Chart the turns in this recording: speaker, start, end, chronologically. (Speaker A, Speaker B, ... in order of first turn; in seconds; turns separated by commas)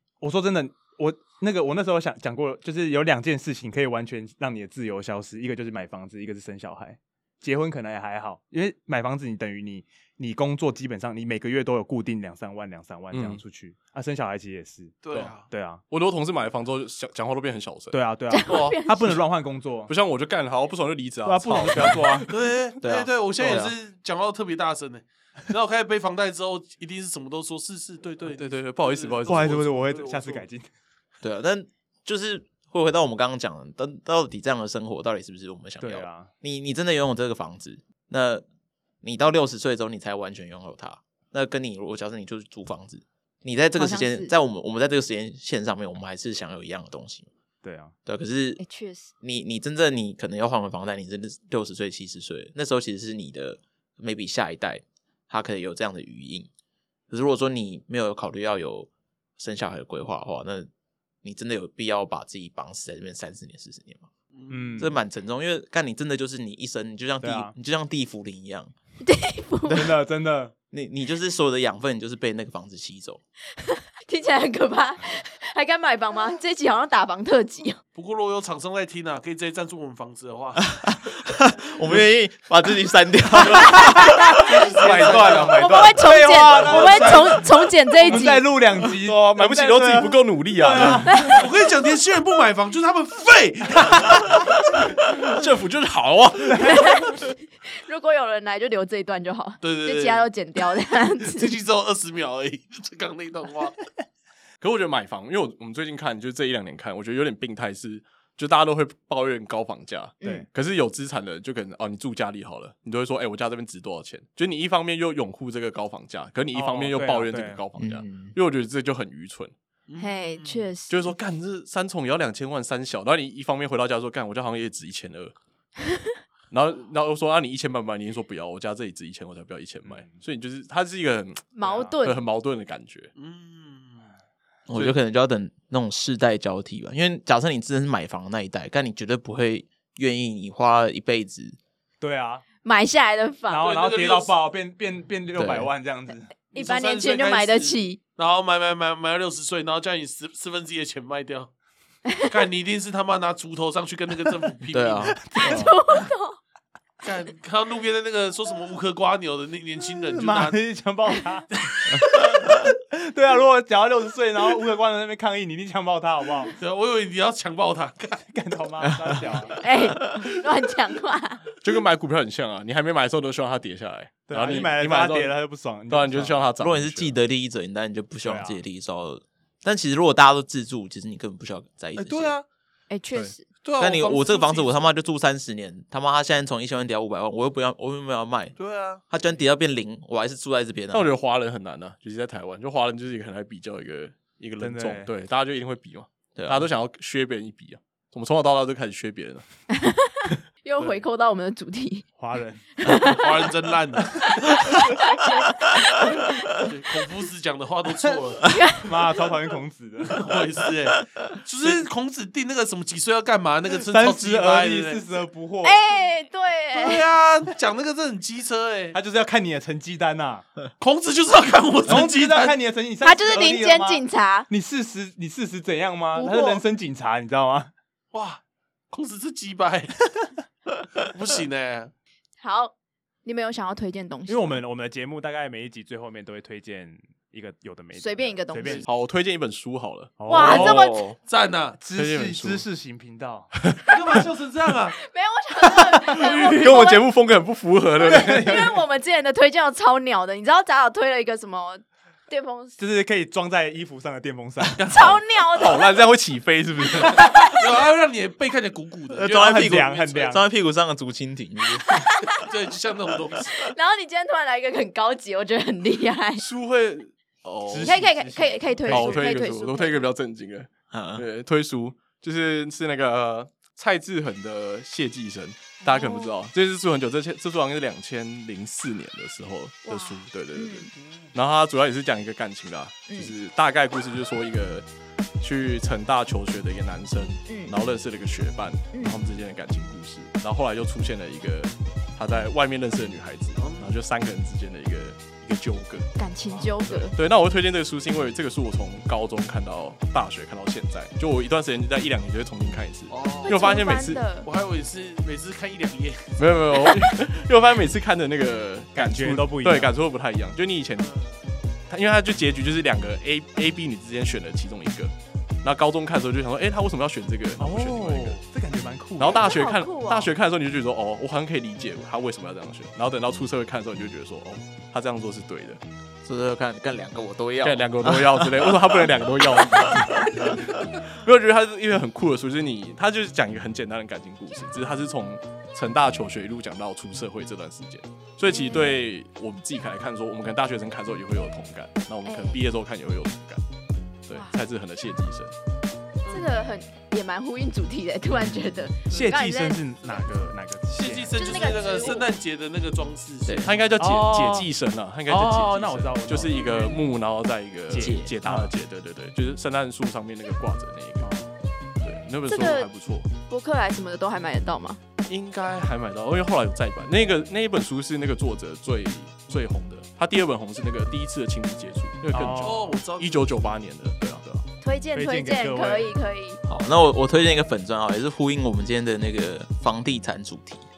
Speaker A: 0.2-15.8, Speaker B: 13.1-13.4, Speaker C: 15.0-15.5, Speaker B: 15.9-19.2, Speaker A: 17.9-19.9, Speaker D: 18.3-19.1, Speaker B: 19.9-22.3, Speaker A: 21.2-22.3, Speaker C: 22.3-30.4, Speaker E: 22.8-23.7, Speaker B: 28.2-29.6, Speaker A: 29.3-30.7, Speaker E: 31.2-38.4, Speaker A: 35.8-36.3, Speaker E: 39.0-47.3, Speaker D: 43.8-44.3, Speaker A: 47.6-47.9, Speaker E: 48.0-48.6, Speaker D: 48.6-49.1, Speaker E: 49.2-56.5, Speaker E: 57.1-60.7, Speaker E: 61.2-64.1, Speaker C: 64.3-64.8, Speaker A: 64.5-65.0, Speaker E: 64.8-68.7, Speaker A: 67.2-67.5, Speaker D: 69.0-69.9, Speaker A: 69.7-70.5, Speaker E: 70.7-73.2, Speaker D: 73.6-77.8, Speaker C: 77.9-80.6, Speaker E: 80.6-85.5, Speaker C: 84.3-85.7, Speaker B: 84.6-86.0, Speaker D: 85.5-88.5, Speaker A: 86.0-87.4, Speaker C: 86.4-87.5, Speaker A: 88.0-91.5, Speaker B: 89.0-91.2, Speaker D: 91.1-91.4, Speaker C: 91.3-94.5, Speaker B: 95.1-97.0, Speaker D: 96.6-101.5, Speaker C: 99.6-100.3, Speaker C: 101.2-103.8, Speaker B: 104.6-119.5, Speaker D: 110.2-110.5, Speaker A: 116.5-117.6, Speaker E: 117.8-118.3, Speaker C: 119.9-120.7, Speaker D: 120.0-121.1, Speaker B: 120.9-125.3, Speaker B: 126.5-133.1, Speaker A: 129.8-130.2, Speaker D: 131.5-132.2, Speaker C: 133.2-134.1, Speaker E: 134.7-141.6, Speaker A: 142.0-142.4, Speaker D: 142.6-143.7, Speaker A: 143.5-146.3, Speaker C: 143.6-144.3, Speaker E: 145.3-145.7, Speaker C: 146.5-151.5, Speaker D: 146.5-148.0, Speaker C: 152.3-155.4, Speaker E: 154.7-155.3, Speaker A: 155.2-155.8, Speaker D: 155.3-156.4, Speaker C: 157.0-160.6, Speaker A: 160.0-161.5, Speaker C: 161.6-162.0, Speaker A: 162.4-166.5, Speaker C: 166.6-168.2, Speaker A: 168.3-169.6, Speaker E: 168.9-169.1, Speaker D: 169.6-171.4, Speaker B: 171.6-177.2, Speaker A: 174.3-176.4, Speaker E: 176.6-182.3, Speaker A: 178.2-178.6, Speaker C: 181.9-182.4, Speaker D: 182.9-183.4, Speaker C: 183.6-184.9, Speaker E: 183.8-188.6, Speaker C: 188.6-189.0, Speaker E: 189.1-191.1, Speaker B: 190.9-199.4, Speaker A: 194.6-195.1, Speaker E: 196.4-196.7, Speaker D: 199.7-202.1, Speaker A: 202.2-202.8, Speaker D: 202.8-203.5, Speaker C: 203.0-204.2, Speaker A: 204.0-204.3, Speaker D: 204.2-206.6, Speaker C: 206.7-208.4, Speaker D: 208.5-208.9, Speaker A: 208.8-210.3, Speaker C: 210.1-215.0, Speaker A: 213.7-215.8, Speaker D: 215.6-217.1, Speaker C: 216.7-218.9, Speaker A: 218.9-220.4, Speaker C: 220.8-222.5, Speaker A: 221.8-227.7, Speaker D: 223.0-224.5, Speaker D: 226.1-226.6, Speaker C: 228.1-230.0, Speaker C: 230.9-231.9, Speaker D: 232.4-232.7, Speaker D: 233.2-234.6, Speaker A: 234.3-238.9, Speaker D: 238.0-238.9, Speaker B: 238.9-240.2, Speaker A: 240.2-240.8, Speaker D: 240.3-241.1, Speaker E: 240.4-241.1, Speaker C: 240.4-241.8, Speaker A: 241.8-243.5, Speaker B: 241.9-242.6, Speaker B: 243.5-243.8, Speaker C: 243.9-245.0, Speaker D: 245.0-247.0, Speaker C: 246.1-246.7, Speaker B: 246.2-248.7, Speaker A: 248.0-248.8, Speaker D: 248.1-252.8, Speaker A: 252.8-254.9, Speaker C: 254.8-255.2, Speaker D: 254.9-255.9, Speaker B: 255.6-257.4, Speaker C: 257.4-260.2, Speaker E: 259.1-262.1, Speaker A: 259.3-260.4, Speaker D: 261.9-262.3, Speaker C: 262.4-263.6, Speaker D: 263.6-266.4, Speaker B: 266.4-268.0, Speaker A: 267.7-269.4, Speaker D: 267.8-270.1, Speaker B: 268.9-284.8, Speaker E: 270.9-271.2, Speaker D: 275.8-276.3, Speaker D: 279.9-280.9, Speaker B: 285.4-296.1, Speaker D: 287.5-287.7, Speaker D: 288.9-289.2, Speaker C: 293.6-293.9, Speaker D: 296.2-297.1, Speaker B: 296.9-304.2, Speaker C: 303.1-303.8, Speaker D: 303.4-304.5, Speaker C: 304.4-307.0, Speaker B: 306.4-311.1, Speaker A: 308.9-309.9, Speaker C: 311.0-311.3, Speaker B: 311.9-315.1, Speaker B: 315.6-318.4, Speaker A: 317.6-319.6, Speaker B: 319.2-325.8, Speaker D: 319.3-320.3, Speaker E: 326.2-329.0, Speaker B: 327.6-343.6, Speaker D: 338.5-339.0, Speaker D: 342.2-342.6, Speaker B: 344.3-345.5, Speaker D: 344.3-344.6, Speaker D: 346.3-349.8, Speaker A: 349.1-351.6, Speaker C: 350.9-353.7, Speaker D: 351.3-352.3, Speaker E: 353.4-353.7, Speaker B: 353.6-361.3, Speaker A: 354.0-354.7, Speaker A: 355.3-357.1, Speaker A: 357.9-358.7, Speaker E: 357.9-358.3, Speaker A: 361.2-361.5, Speaker B: 362.0-363.3, Speaker D: 362.5-362.9, Speaker D: 363.5-365.0, Speaker B: 365.3-374.6, Speaker A: 372.3-372.9, Speaker C: 372.5-373.4, Speaker D: 374.8-376.6, Speaker A: 375.1-376.1, Speaker E: 376.6-380.9